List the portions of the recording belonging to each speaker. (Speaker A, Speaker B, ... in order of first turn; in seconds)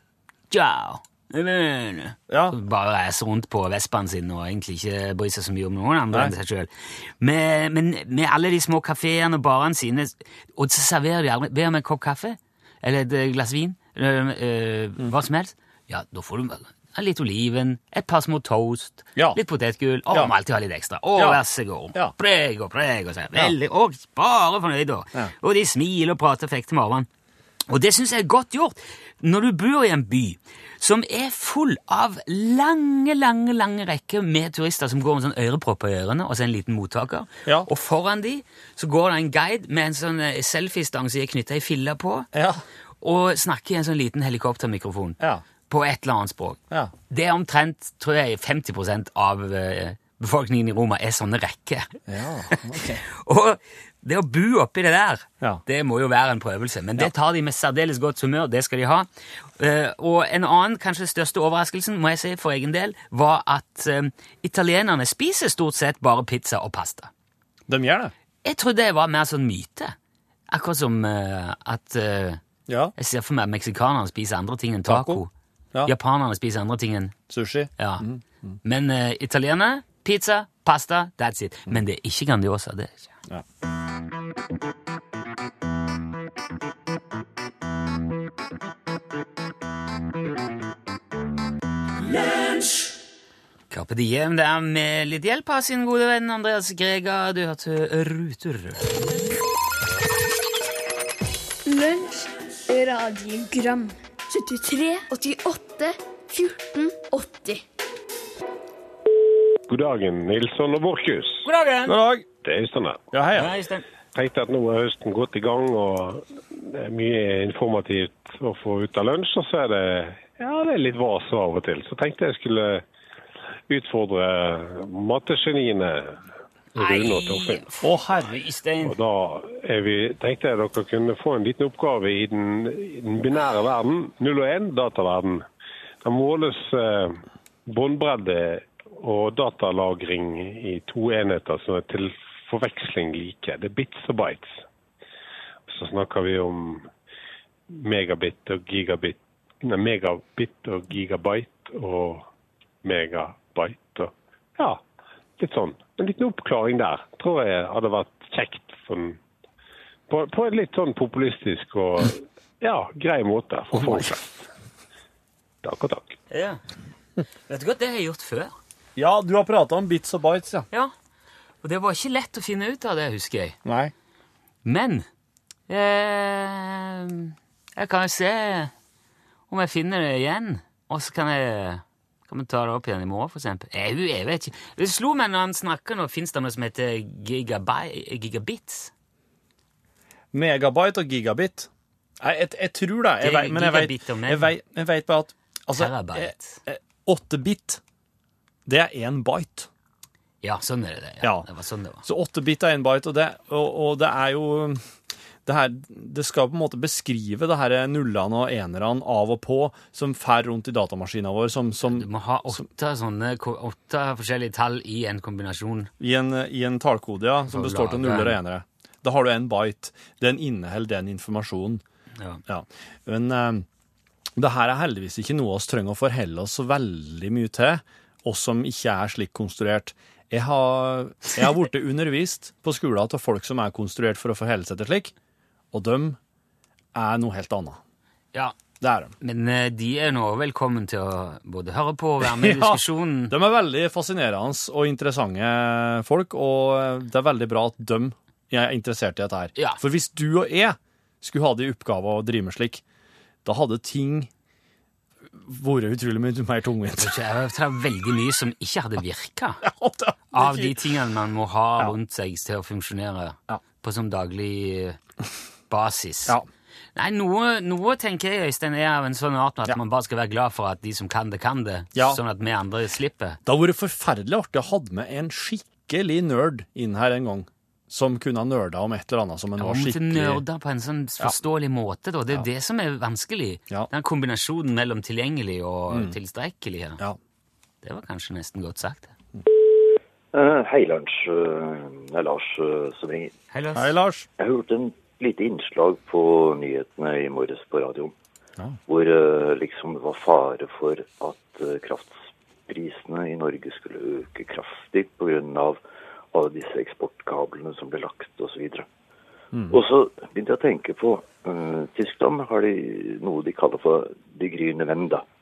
Speaker A: 0.5-27.1, 27.7-42.3, 43.0-46.6, 47.1-51.9, 52.5-67.1, 68.4-70.0, 70.5-72.4, 73.0-75.3, 75.8-77.2, 77.8-78.0, 78.6-83.1, 93.7-98.8, 111.4-112.0, 113.3-113.8, 126.8-128.9, 166.3-166.6, 167.5-168.5, 171.6-173.6, 174.6-175.1, 175.7-178.7, 179.5-188.9, 193.2-194.5, 195.7-196.6, 200.4-202.0, 211.9-215.9, 217.5-218.4, 239.2-243.3, 257.0-259.6, 260.3-265.0, 265.7-266.3, 266.9-273.4, 279.6-287.0, 287.8-289.1, 293.5-293.9
Speaker B: 2.3-2.5, 21.2-21.4, 42.3-42.6, 52.1-53.0, 67.7-68.1, 72.7-72.9, 74.8-75.2, 77.3-78.5, 111.9-112.2, 113.1-113.5, 127.8-128.4, 163.8-164.1, 168.9-170.7, 173.6-173.9, 190.3-191.7, 192.2-197.8, 198.7-199.7, 201.2-201.5, 202.0-204.8, 205.4-212.6, 216.0-221.8, 222.4-223.7, 224.4-235.1, 235.7-236.2, 236.9-237.8, 238.8-239.1, 242.2-252.8, 253.4-254.3, 255.3-257.1, 259.6-260.8, 271.9-272.2, 273.4-280.4, 285.9-286.1, 293.7-294.3, 309.5-309.8
Speaker C: 101.7-107.6
Speaker D: 109.7-111.5, 112.4-113.0, 114.1-122.8, 123.7-126.2, 126.7-127.6, 128.8-135.4, 136.0-144.6, 145.7-146.9, 147.7-152.3, 152.8-154.8, 155.4-159.2, 160.1-164.4, 165.6-166.2
Speaker E: 290.3-293.3, 294.4-298.1, 298.9-305.8, 306.3-308.9, 309.7-315.2